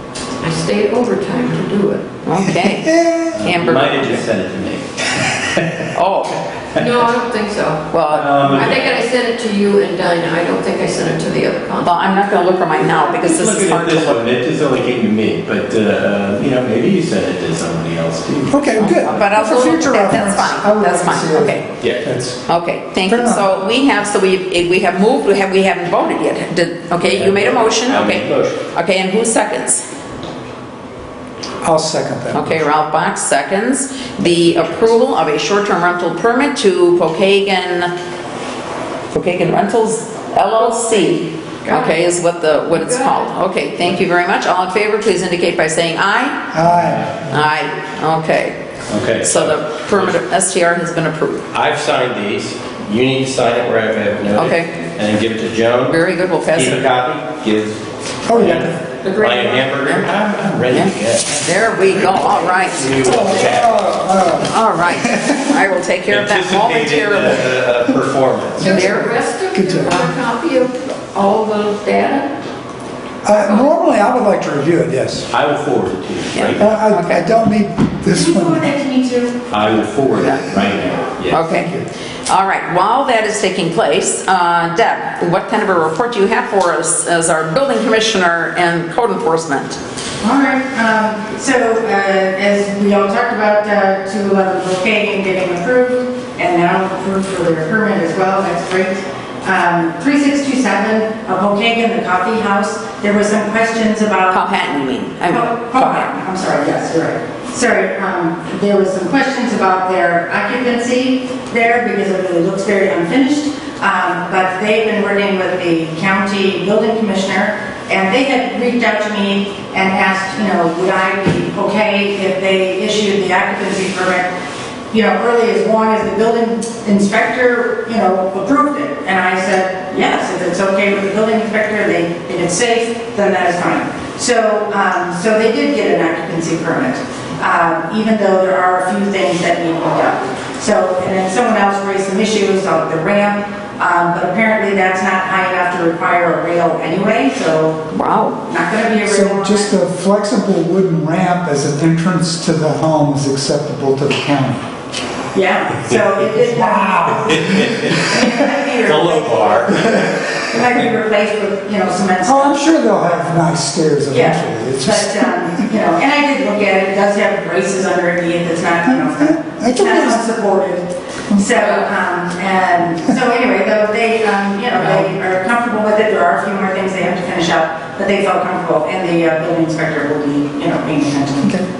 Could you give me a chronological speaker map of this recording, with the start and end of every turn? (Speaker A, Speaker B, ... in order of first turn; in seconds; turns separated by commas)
Speaker A: 0.4-2.1, Speaker B: 2.2-4.2, Speaker C: 2.4-3.3, Speaker D: 3.3-5.9, Speaker B: 5.9-6.4, Speaker A: 6.7-7.9, Speaker B: 7.9-8.3, Speaker D: 8.1-9.0, Speaker A: 8.4-12.1, Speaker B: 11.8-14.2, Speaker D: 12.9-18.6, Speaker C: 18.5-22.4, Speaker B: 18.8-21.6, Speaker D: 21.8-22.1, Speaker B: 22.5-29.8, Speaker C: 23.1-23.4, Speaker D: 27.0-28.6, Speaker C: 31.6-32.6, Speaker B: 32.3-37.9, Speaker B: 39.1-46.5, Speaker A: 40.6-43.4, Speaker C: 46.5-47.1, Speaker D: 46.6-47.2, Speaker B: 47.3-48.6, Speaker D: 48.9-50.2, Speaker B: 49.2-51.5, Speaker D: 51.5-64.0, Speaker B: 54.4-54.7, Speaker B: 55.9-56.9, Speaker C: 58.3-58.8, Speaker A: 59.0-59.7, Speaker B: 61.4-63.0, Speaker C: 63.0-65.6, Speaker B: 64.5-67.5, Speaker D: 66.1-68.8, Speaker C: 68.6-70.0, Speaker A: 68.6-72.3, Speaker B: 68.6-69.0, Speaker C: 73.2-75.3, Speaker A: 73.3-73.7, Speaker D: 75.3-76.7, Speaker B: 76.3-77.2, Speaker C: 76.6-78.6, Speaker E: 78.1-79.4, Speaker D: 79.5-81.5, Speaker B: 81.3-81.7, Speaker C: 81.4-81.8, Speaker B: 82.3-89.8, Speaker E: 90.2-104.5, Speaker B: 104.3-106.1, Speaker E: 105.3-124.3, Speaker E: 124.9-147.9, Speaker B: 147.9-148.4, Speaker E: 148.4-149.7, Speaker C: 149.0-154.6, Speaker E: 155.3-157.3, Speaker C: 156.3-158.3, Speaker D: 157.2-158.2, Speaker E: 157.9-162.6, Speaker D: 158.8-160.3, Speaker C: 162.2-165.6, Speaker E: 164.1-181.6, Speaker C: 168.9-170.2